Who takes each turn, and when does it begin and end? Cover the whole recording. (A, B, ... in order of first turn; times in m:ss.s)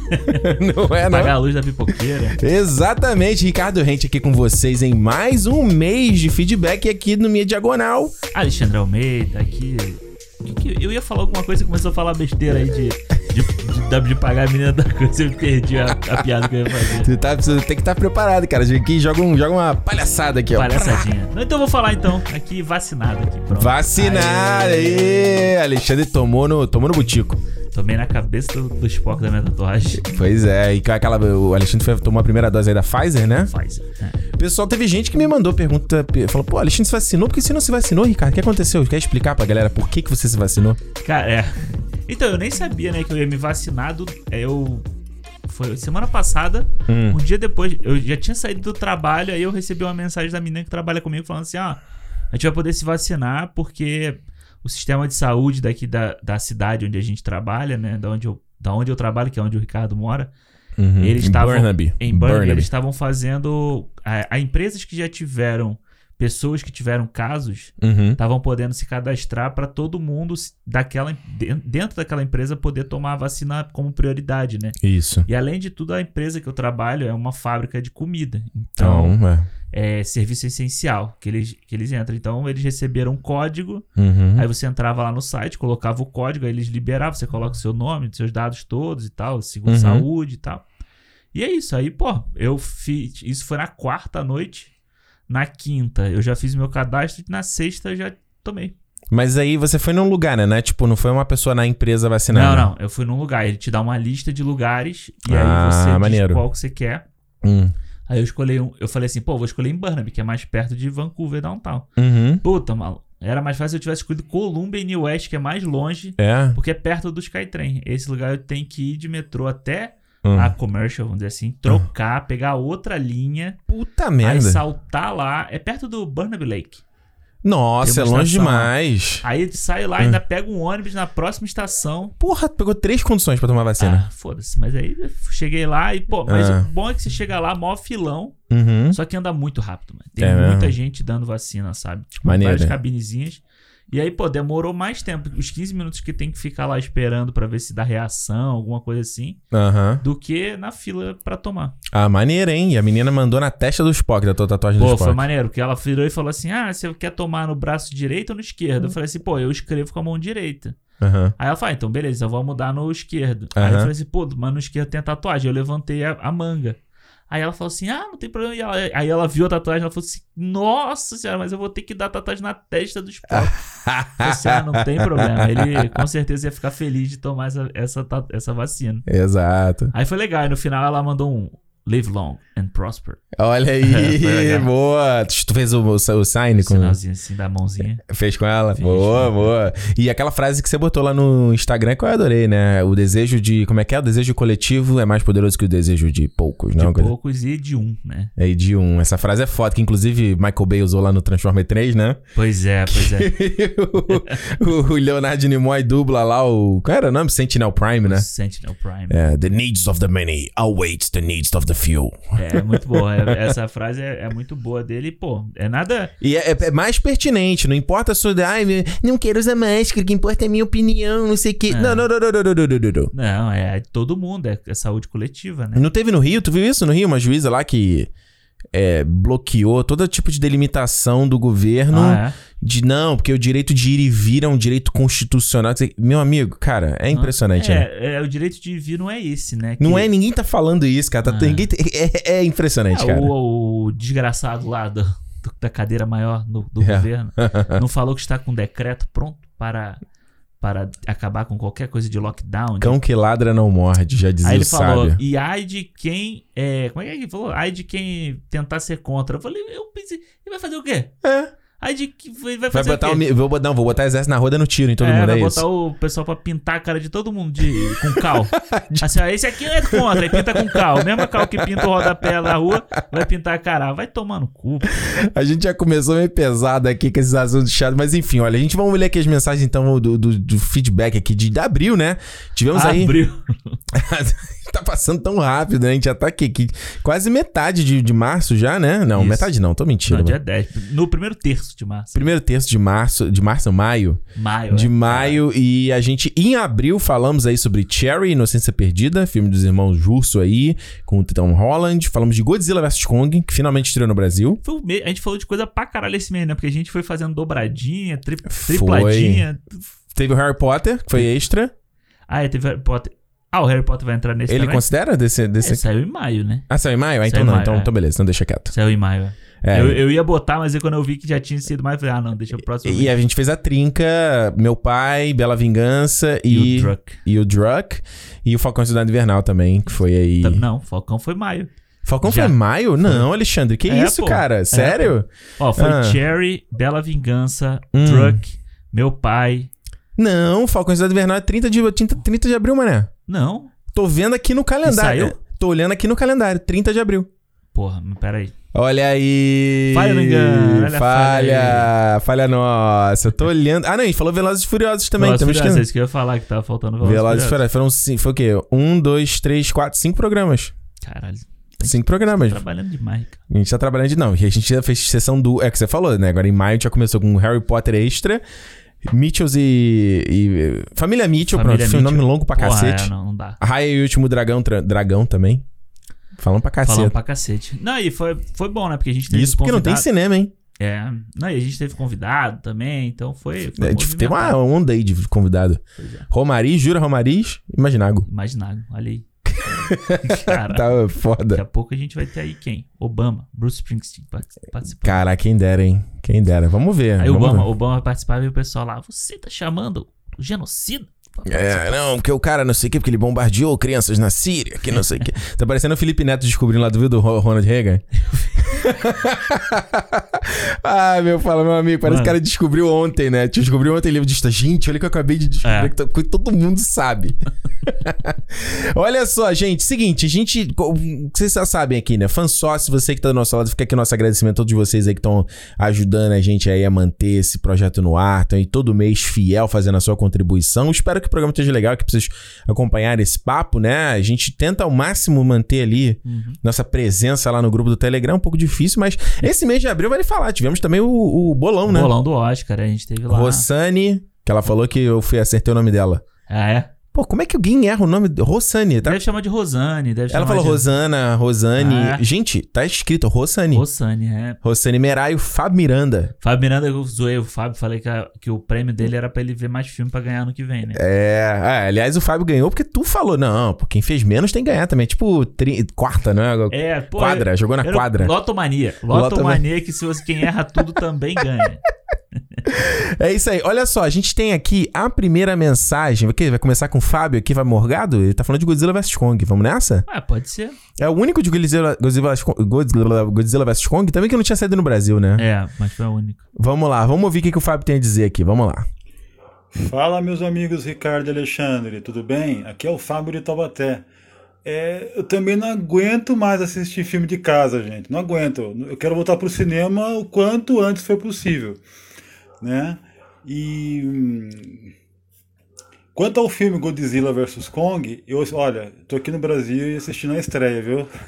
0:00.1-0:00.5 A
0:00.3-0:01.3 B
0:01.1-0:02.4 A
0:02.4-0:08.1 B
0:08.3-0:17.1 A
0:16.9-0:21.1 B
0:20.5-0:25.5 A
0:23.5-0:27.4 B
0:27.7-0:30.1 A
0:30.0-0:33.5 B
0:33.4-0:34.2 A
0:34.4-0:40.8 B
0:41.0-0:44.8 A
0:45.5-0:51.8 A
0:46.9-0:47.2 B
0:52.3-1:00.3 A
1:00.8-1:02.7 B
1:01.0-1:19.2 A
1:07.8-1:08.2 B
1:14.8-1:15.3 B
1:18.8-1:19.5 B
1:19.7-1:23.8 A
1:24.0-1:24.4 B
1:24.4-1:30.6 A
1:29.7-1:30.0 B
1:31.3-1:34.7 A
1:35.3-1:38.7 A
1:39.1-1:42.7 B
1:42.3-1:47.0 A
1:45.2-1:46.4 B
1:47.4-1:47.7 B
1:48.1-1:51.9 A
1:52.0-1:52.4 B
1:52.4-2:03.6 A
1:56.2-1:56.6 B
2:00.2-2:00.5 B
2:03.7-2:04.6 B
2:04.2-2:06.8 A
2:07.4-2:09.2 B
2:07.8-2:12.1 A
2:12.2-2:14.1 B
2:13.8-2:18.4 A
2:16.3-2:16.7 B
2:18.5-2:19.0 B
2:18.9-2:29.4 A
2:20.2-2:20.8 B
2:22.2-2:22.8 B
2:29.5-2:30.0 B
2:30.0-2:31.8 A
2:31.9-2:35.2 B
2:34.8-2:40.8 A
2:41.0-2:41.3 B
2:41.4-2:46.8 A
2:43.6-2:43.9 B
2:47.3-2:53.6 A
2:53.3-2:56.0 B
2:54.2-2:59.0 A
2:59.0-2:59.9 B
2:59.9-3:03.2 A
3:03.3-3:07.0 B
3:03.8-3:04.7 A
3:06.6-3:08.0 A
3:08.0-3:17.1 B
3:08.7-3:09.5 A
3:16.8-3:18.3 A
3:18.4-3:22.2 B
3:22.3-3:23.3 A
3:22.9-3:28.2 B
3:24.0-3:24.6 A
3:28.0-3:29.2 A
3:29.1-3:33.5 B
3:32.4-3:36.1 A
3:36.2-3:43.1 B
3:41.7-3:42.1 A
3:43.1-3:45.8 A
3:45.7-3:48.1 B
3:48.7-3:57.8 B
3:51.9-3:52.4 A
3:57.1-4:00.1 A
3:59.8-4:03.3 B
4:01.2-4:01.7 A
4:02.9-4:10.0 A
4:06.8-4:07.8 B
4:10.6-4:13.0 A
4:12.8-4:15.2 B
4:14.4-4:21.1 A
4:21.2-4:21.5 B
4:21.8-4:23.2 A
4:22.7-4:25.6 B
4:25.0-4:35.0 A
4:27.8-4:29.1 B
4:29.8-4:32.5 B
4:34.9-4:43.2 B
4:42.7-4:43.8 A
4:43.9-4:50.4 B
4:49.1-4:49.5 A
4:50.0-4:52.3 A
4:52.1-5:04.6 B
4:54.3-4:55.4 A
5:04.6-5:09.8 A
5:08.5-5:09.4 B
5:10.1-5:11.7 B
5:12.3-5:14.9 A
5:14.5-5:15.8 B
5:15.6-5:16.6 A
5:16.7-5:18.7 B
5:17.2-5:17.9 A
5:18.7-5:23.2 A
5:19.6-5:20.0 B
5:22.8-5:30.6 B
5:26.5-5:27.2 A
5:30.4-5:31.7 A
5:32.0-5:36.2 B
5:32.2-5:33.3 A
5:33.9-5:39.7 A
5:37.9-5:38.4 B
5:40.2-5:43.1 B
5:43.3-5:43.7 A
5:43.9-5:47.3 B
5:44.8-5:45.4 A
5:47.7-5:48.5 A
5:48.7-5:55.8 B
5:49.9-5:51.9 A
5:55.2-5:57.6 A
5:57.0-6:00.7 B
6:01.0-6:03.4 A
6:01.8-6:02.6 B
6:03.5-6:08.4 B
6:09.0-6:15.6 B
6:11.5-6:13.6 A
6:16.4-6:17.2 B
6:16.8-6:20.1 A
6:19.3-6:20.5 B
6:20.8-6:24.6 A
6:23.8-6:28.2 B
6:26.0-6:26.3 A
6:28.2-6:35.2 A
6:29.6-6:31.6 B
6:35.0-6:37.7 B
6:37.2-6:42.0 A
6:41.4-6:48.0 B
6:44.9-6:45.2 A
6:48.6-7:22.1 B
6:52.0-6:52.4 A
6:55.6-6:55.9 A
7:16.2-7:16.6 A
7:21.8-7:23.7 A
7:23.3-7:26.2 B
7:26.5-7:26.9 A
7:27.1-7:29.2 B
7:29.0-7:30.9 A
7:30.3-7:33.8 B
7:31.8-7:32.2 A
7:33.7-7:34.6 A
7:34.6-7:36.3 B
7:36.4-7:41.0 A
7:40.9-7:48.3 B
7:46.7-7:51.8 A
7:49.1-7:49.6 B
7:52.6-8:00.0 B
8:00.1-8:00.8 A
8:01.0-8:05.4 B
8:05.4-8:06.4 A
8:06.6-8:08.8 B
8:09.7-8:14.0 C
8:14.6-8:21.8 C
8:22.6-8:24.9 C
8:26.1-8:31.1 C